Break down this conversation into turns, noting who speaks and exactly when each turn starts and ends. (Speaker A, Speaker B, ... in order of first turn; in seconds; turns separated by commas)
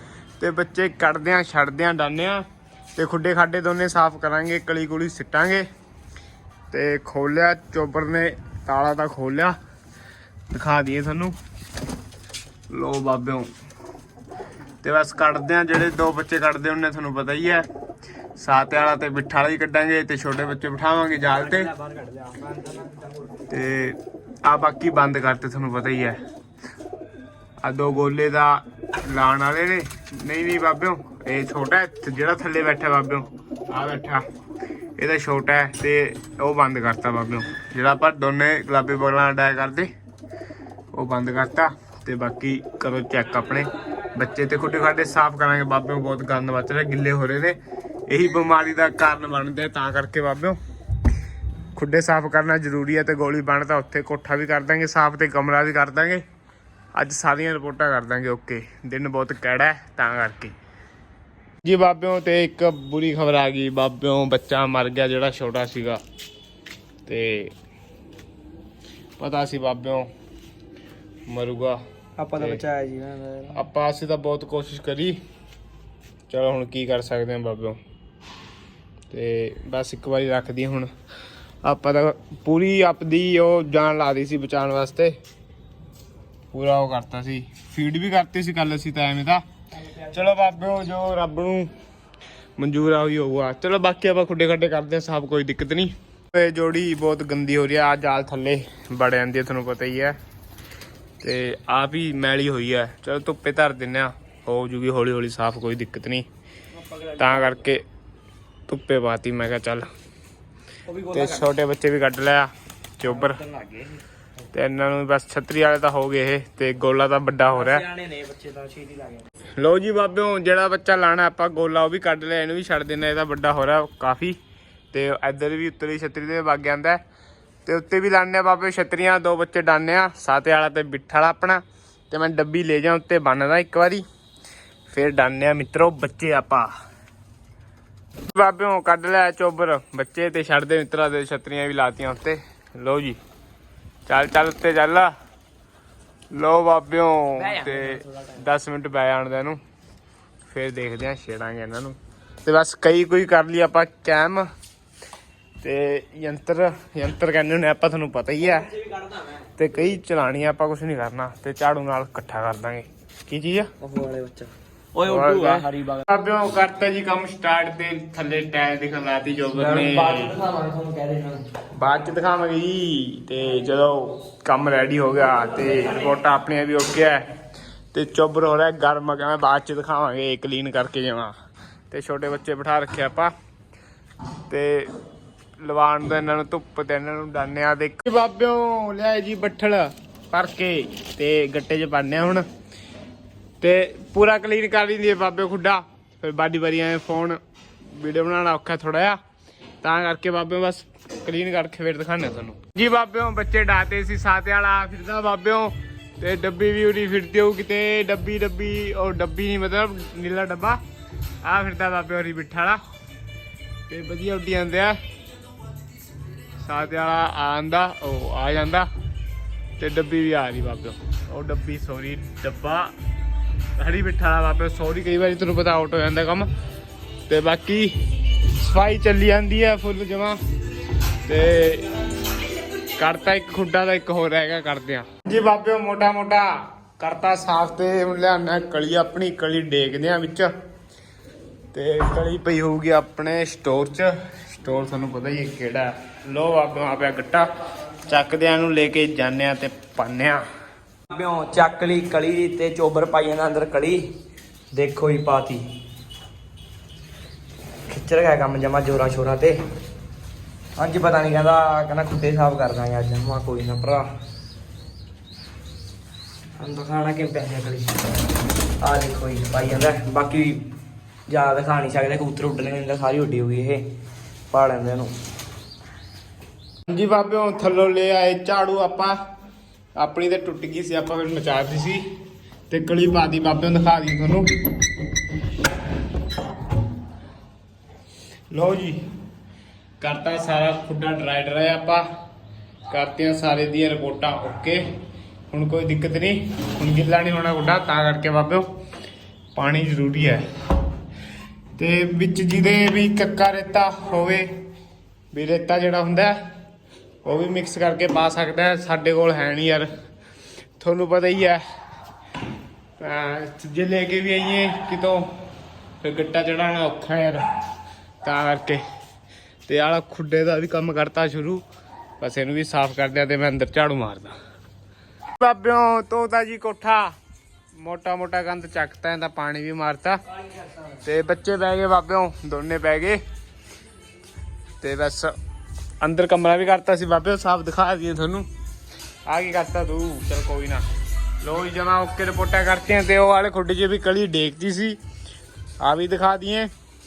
Speaker A: 0.4-2.4, Speaker A: 3.0-5.7, Speaker A: 6.7-9.6, Speaker A: 10.5-11.3, Speaker A: 12.7-13.5, Speaker A: 14.8-17.6, Speaker A: 18.4-21.7, Speaker B: 21.2-23.5, Speaker A: 23.5-26.2, Speaker A: 27.6-34.2, Speaker A: 35.0-39.9, Speaker A: 40.9-50.6, Speaker A: 51.7-56.2, Speaker A: 56.9-60.5, Speaker A: 61.6-66.0, Speaker A: 67.0-67.5, Speaker A: 69.2-70.1, Speaker A: 71.3-71.8, Speaker B: 72.2-73.6, Speaker A: 72.3-72.6, Speaker A: 73.5-75.2, Speaker A: 76.3-77.8, Speaker A: 79.1-80.9, Speaker A: 81.6-85.2, Speaker A: 86.5-89.4, Speaker B: 89.8-90.2, Speaker A: 90.1-91.7, Speaker A: 92.6-100.2, Speaker A: 101.2-106.2, Speaker B: 106.7-107.7, Speaker A: 107.2-107.8, Speaker A: 108.7-109.9, Speaker B: 110.9-111.5, Speaker A: 111.1-113.4, Speaker B: 113.0-114.0, Speaker A: 114.5-117.8, Speaker B: 117.5-119.3, Speaker A: 119.6-124.4, Speaker A: 124.9-127.0, Speaker A: 127.7-134.0, Speaker A: 134.9-136.7, Speaker A: 138.3-143.2, Speaker A: 144.1-145.1, Speaker A: 146.3-149.6, Speaker B: 147.4-148.4, Speaker A: 150.5-154.5, Speaker A: 155.6-158.7, Speaker B: 158.4-159.4, Speaker A: 159.6-163.7, Speaker B: 163.8-166.1, Speaker A: 165.0-170.3, Speaker B: 169.5-171.4, Speaker A: 171.8-177.2, Speaker A: 177.9-181.3, Speaker A: 181.9-183.3, Speaker A: 184.5-184.9, Speaker A: 185.6-192.4, Speaker A: 193.6-197.4, Speaker A: 197.9-199.2, Speaker A: 199.8-210.8, Speaker A: 211.4-212.8, Speaker A: 213.9-215.0, Speaker A: 216.6-218.9, Speaker A: 219.8-222.9, Speaker A: 223.8-226.5, Speaker A: 227.3-230.4, Speaker A: 231.2-231.9, Speaker A: 233.0-240.5, Speaker A: 241.7-247.5, Speaker A: 248.1-250.4, Speaker B: 251.1-254.2, Speaker B: 254.7-255.8, Speaker B: 257.9-259.6, Speaker B: 260.8-264.1, Speaker B: 266.6-268.1, Speaker B: 268.8-270.6, Speaker B: 271.3-273.9, Speaker B: 274.5-275.1, Speaker A: 276.9-279.2, Speaker A: 280.0-282.0, Speaker A: 282.7-284.5, Speaker A: 288.5-289.0, Speaker A: 290.0-292.0, Speaker A: 292.9-294.8, Speaker A: 295.5-298.7, Speaker A: 299.5-300.4, Speaker A: 301.7-304.5, Speaker A: 305.3-306.4, Speaker A: 307.2-309.9, Speaker A: 310.8-311.6, Speaker A: 313.0-315.3, Speaker A: 316.0-317.4, Speaker A: 318.2-318.8, Speaker A: 319.7-321.6, Speaker A: 322.2-324.3, Speaker A: 325.4-327.1, Speaker A: 327.8-330.2, Speaker A: 331.0-333.2, Speaker A: 334.8-335.3, Speaker A: 336.0-338.5, Speaker A: 339.2-340.8, Speaker A: 341.4-345.0, Speaker A: 345.8-346.7